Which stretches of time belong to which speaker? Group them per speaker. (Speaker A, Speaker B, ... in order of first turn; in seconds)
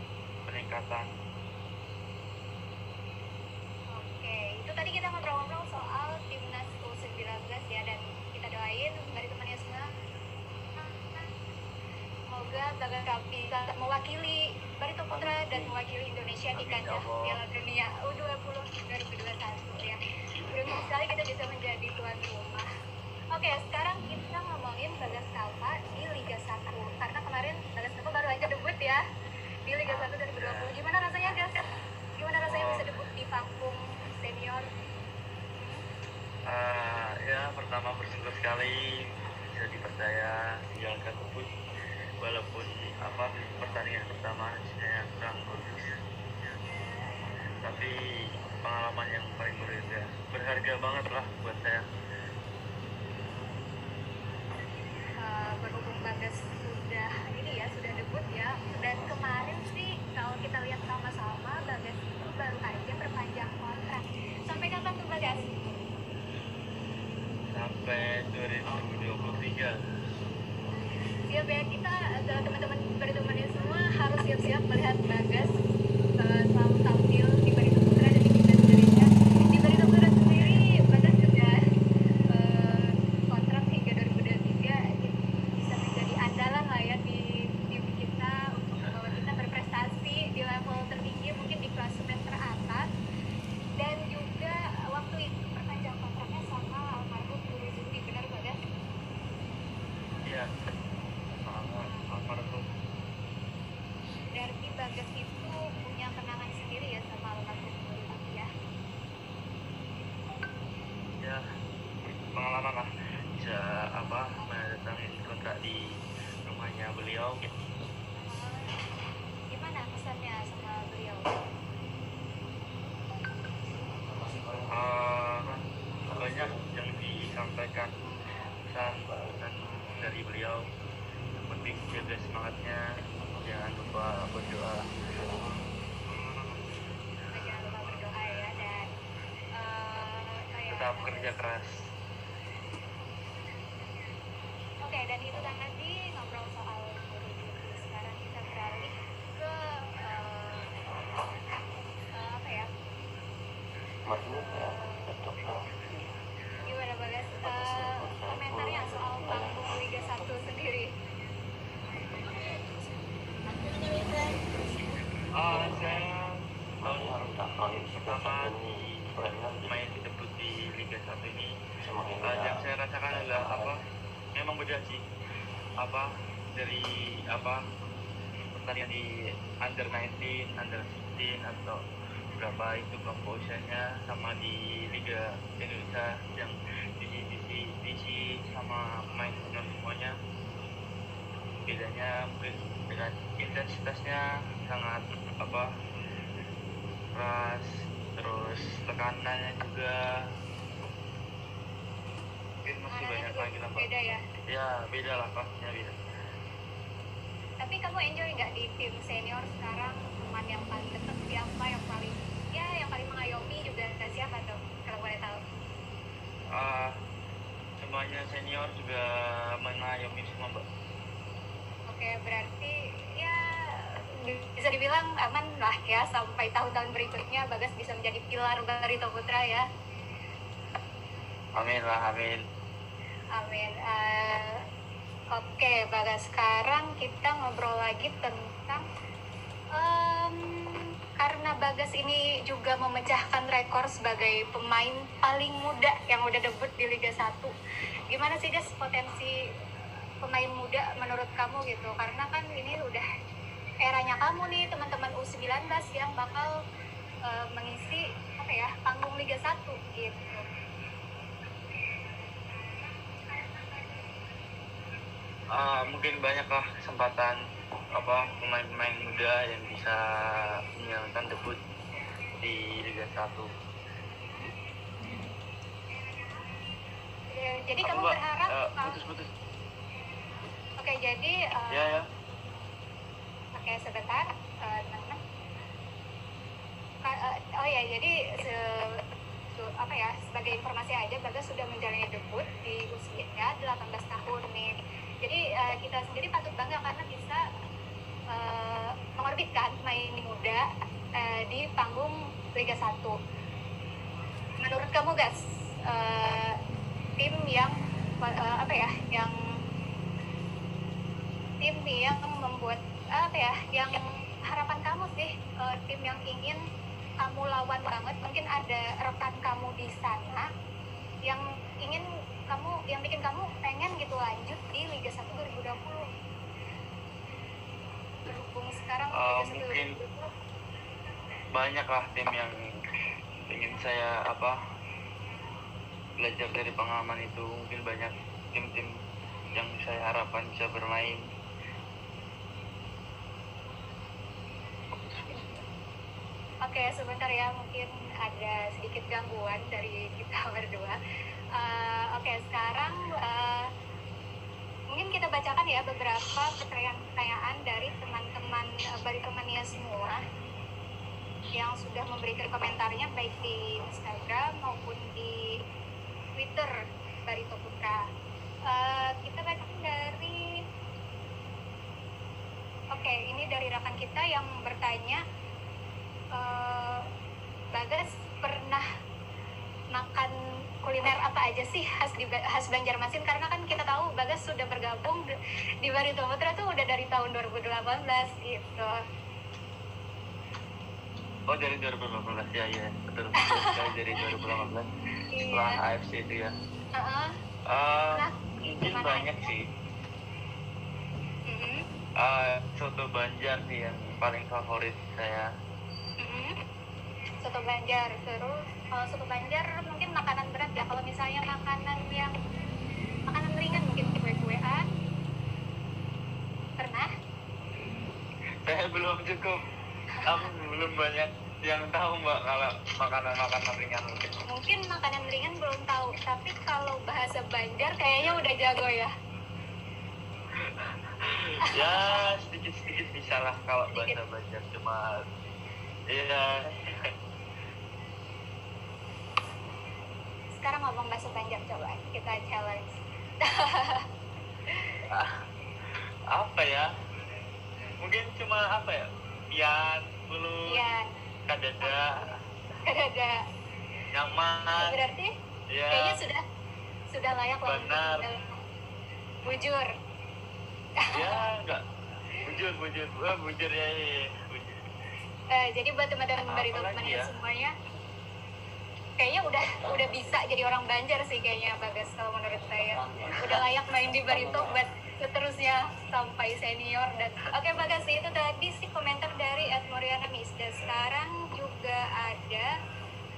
Speaker A: 0.5-1.1, 15.1-15.8, 16.5-17.4, 29.9-30.7, 32.5-32.9, 36.5-38.8, 39.5-41.5, 42.2-45.9, 47.6-47.9, 48.6-51.8, 67.5-69.7, 88.7-89.2, 101.4-102.6, 112.0-115.8, 116.5-117.5, 124.7-127.9, 128.7-130.6, 131.4-132.8, 133.4-134.8, 140.7-141.7, 165.3-169.1, 169.6-171.5, 172.2-173.8, 174.3-175.0, 175.8-177.6, 178.5-179.0, 179.6-181.8, 182.4-190.1, 191.7-195.7, 197.1-199.9, 202.6-203.9, 204.5-205.9, 216.6-216.9, 217.8-219.0, 219.6-220.6, 231.6-232.4, 265.6-267.4, 267.9-271.6, 272.4-273.5, 277.8-279.3, 281.7-282.0, 329.1-329.9, 331.5-332.5, 333.5-334.5, 336.2-338.9, 339.5-341.2, 345.0-345.3, 391.5-394.9, 395.5-396.5, 397.7-399.6, 402.2-405.5, 418.6-419.5, 420.2-424.3, 428.2-428.4, 431.7-435.0, 436.1-436.7, 445.1-445.3, 446.3-446.9, 448.0-450.8, 451.5-452.1, 454.1-454.9, 455.7-456.1, 457.6-458.3, 461.1-461.8, 462.4-464.8, 466.5-467.3
Speaker B: 3.9-9.8, 10.8-11.3, 12.3-20.0, 20.5-22.6, 23.3-29.0, 29.7-31.6, 32.2-34.7, 35.6-35.8, 46.6-47.2, 55.2-65.5, 71.3-75.5, 76.2-81.5, 82.3-92.8, 93.8-98.6, 101.8-102.2, 104.4-108.5, 118.2-118.7, 119.5-121.4, 137.3-138.9, 139.6-141.3, 144.8-150.7, 152.2-152.9, 154.3-155.1, 156.6-160.9, 202.9-204.2, 207.6-215.4, 221.9-223.4, 224.2-229.6, 233.4-234.6, 235.3-238.8, 239.8-240.4, 241.2-247.5, 248.1-249.3, 250.2-253.0, 253.8-256.5, 257.3-260.5, 277.3-278.9, 280.8-281.9, 283.5-285.2, 287.0-289.0, 289.6-294.7, 295.2-297.4, 298.3-300.6, 301.2-303.1, 304.6-305.3, 305.9-306.5, 307.2-309.3, 311.6-313.9, 314.5-316.6, 317.2-320.4, 321.3-326.0, 328.2-330.3, 345.3-345.6, 346.6-350.9, 351.6-353.7, 354.9-360.2, 361.5-365.4, 366.4-366.7, 367.3-368.0, 368.7-370.4, 372.9-375.2, 376.4-377.0, 377.7-378.8, 379.9-380.3, 380.8-385.2, 385.8-388.9, 393.4-394.3, 395.3-395.7, 396.9-397.3, 398.1-398.4, 398.9-399.4, 401.5-401.8, 406.2-406.5, 407.4-412.3, 413.3-414.9, 416.8-417.1, 424.5-429.1, 431.7-432.2, 440.6-444.0, 444.7-445.0, 450.7-451.1, 451.8-452.3, 452.9-453.3, 454.8-455.3, 455.9-456.4, 457.1-458.6, 459.4-459.9, 465.5-467.7, 469.2-482.7